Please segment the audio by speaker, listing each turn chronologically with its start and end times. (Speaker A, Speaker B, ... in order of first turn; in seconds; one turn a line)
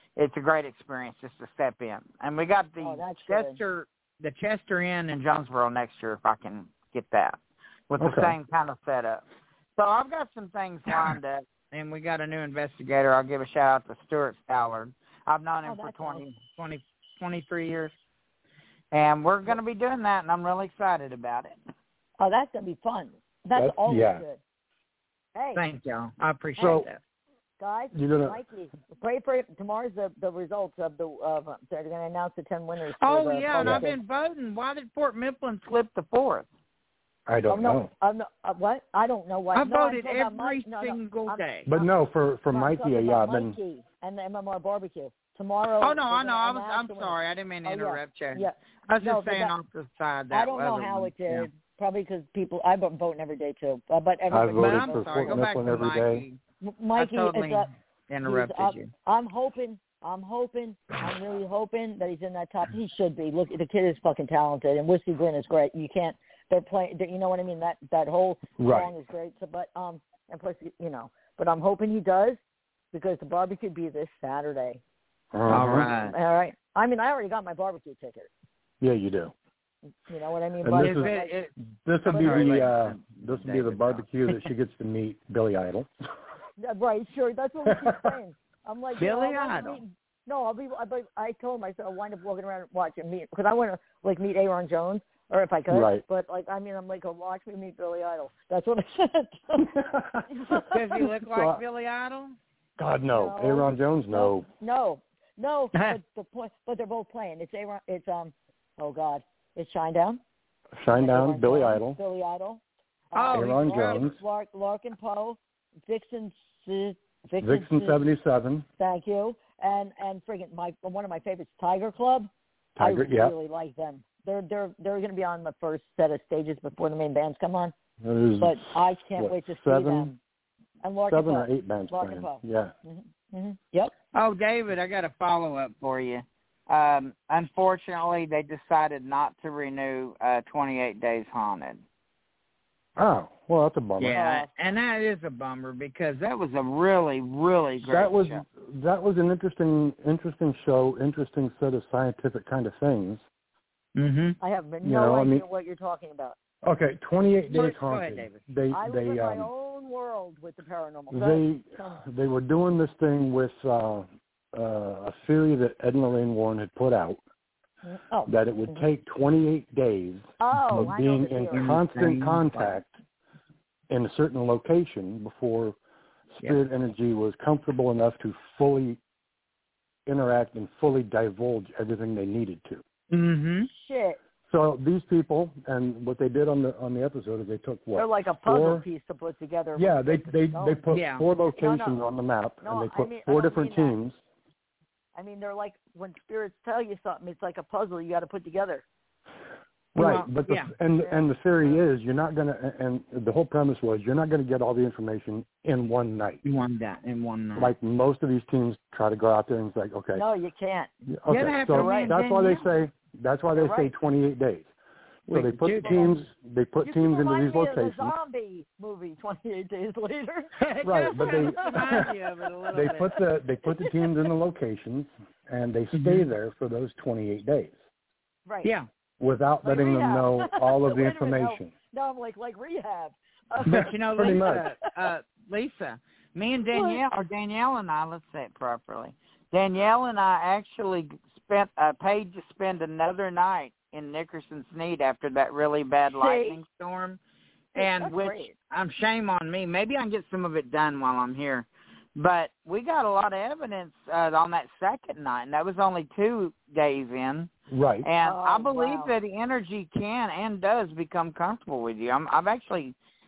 Speaker A: 0.2-7.4
Speaker B: 2.8-3.6
Speaker A: 7.9-9.2
Speaker C: 8.0-8.3
Speaker A: 9.8-17.9
Speaker B: 15.7-16.2
Speaker A: 18.9-21.5
Speaker B: 22.2-24.4
Speaker C: 23.6-24.2
Speaker B: 25.4-25.6
Speaker A: 25.6-27.0
Speaker C: 26.6-26.9
Speaker B: 27.6-34.0
Speaker C: 27.9-28.4
Speaker A: 33.0-36.5
Speaker C: 33.6-33.9
Speaker C: 37.3-37.9
Speaker B: 37.5-41.9
Speaker A: 39.5-41.7
Speaker C: 41.7-43.6
Speaker B: 42.5-49.5
Speaker A: 45.8-51.5
Speaker B: 50.3-55.5
Speaker C: 54.3-56.2
Speaker A: 54.5-56.4
Speaker B: 56.6-57.7
Speaker A: 57.0-58.9
Speaker B: 58.2-72.4
Speaker C: 68.6-68.9
Speaker B: 72.9-74.8
Speaker C: 75.3-75.9
Speaker A: 75.5-76.2
Speaker B: 76.0-78.3
Speaker C: 78.8-79.3
Speaker B: 80.1-81.3
Speaker C: 80.6-81.2
Speaker A: 80.8-81.5
Speaker C: 81.8-85.9
Speaker A: 82.0-84.5
Speaker B: 82.2-82.6
Speaker B: 86.6-99.7
Speaker C: 87.7-88.2
Speaker A: 89.0-89.8
Speaker C: 95.7-96.0
Speaker C: 99.6-101.6
Speaker B: 100.3-100.7
Speaker A: 100.7-102.4
Speaker C: 102.8-104.5
Speaker B: 103.1-110.2
Speaker C: 110.8-112.0
Speaker B: 111.0-118.0
Speaker A: 113.2-114.1
Speaker C: 113.3-114.2
Speaker C: 117.4-118.7
Speaker B: 118.8-127.7
Speaker C: 122.8-123.3
Speaker C: 128.0-130.1
Speaker B: 128.4-130.2
Speaker B: 130.8-133.9
Speaker C: 131.1-132.7
Speaker A: 134.1-141.8
Speaker C: 143.0-144.2
Speaker A: 144.0-148.4
Speaker B: 144.2-144.5
Speaker C: 147.8-153.2
Speaker A: 154.0-154.4
Speaker B: 154.4-156.4
Speaker C: 154.8-155.4
Speaker C: 156.6-159.5
Speaker A: 157.5-158.4
Speaker B: 158.7-162.0
Speaker C: 161.1-167.2
Speaker B: 167.8-168.9
Speaker C: 168.3-173.0
Speaker B: 170.4-171.8
Speaker A: 171.5-172.8
Speaker C: 173.9-175.8
Speaker C: 176.4-179.0
Speaker C: 180.1-182.8
Speaker A: 183.1-183.7
Speaker B: 183.7-184.2
Speaker C: 184.5-188.9
Speaker B: 187.9-190.8
Speaker C: 189.8-194.2
Speaker A: 190.9-191.3
Speaker B: 191.5-192.0
Speaker B: 192.6-194.0
Speaker B: 195.2-198.8
Speaker C: 199.9-206.4
Speaker A: 200.0-200.7
Speaker B: 201.0-201.8
Speaker A: 206.4-207.7
Speaker C: 207.6-210.3
Speaker B: 210.1-210.9
Speaker C: 211.1-214.7
Speaker A: 211.3-212.6
Speaker B: 211.7-212.2
Speaker B: 213.5-213.9
Speaker A: 215.3-216.2
Speaker C: 215.3-218.1
Speaker B: 215.8-216.2
Speaker B: 216.8-220.5
Speaker A: 220.6-223.1
Speaker C: 220.8-222.1
Speaker B: 221.3-222.1
Speaker C: 222.7-227.8
Speaker A: 225.9-226.3
Speaker C: 229.2-231.7
Speaker B: 229.6-234.8
Speaker A: 233.7-247.2
Speaker C: 233.7-234.6
Speaker B: 236.7-237.0
Speaker B: 246.2-246.6
Speaker A: 247.8-257.5
Speaker B: 247.8-248.5
Speaker C: 257.7-258.1
Speaker A: 258.0-262.9
Speaker B: 258.2-259.1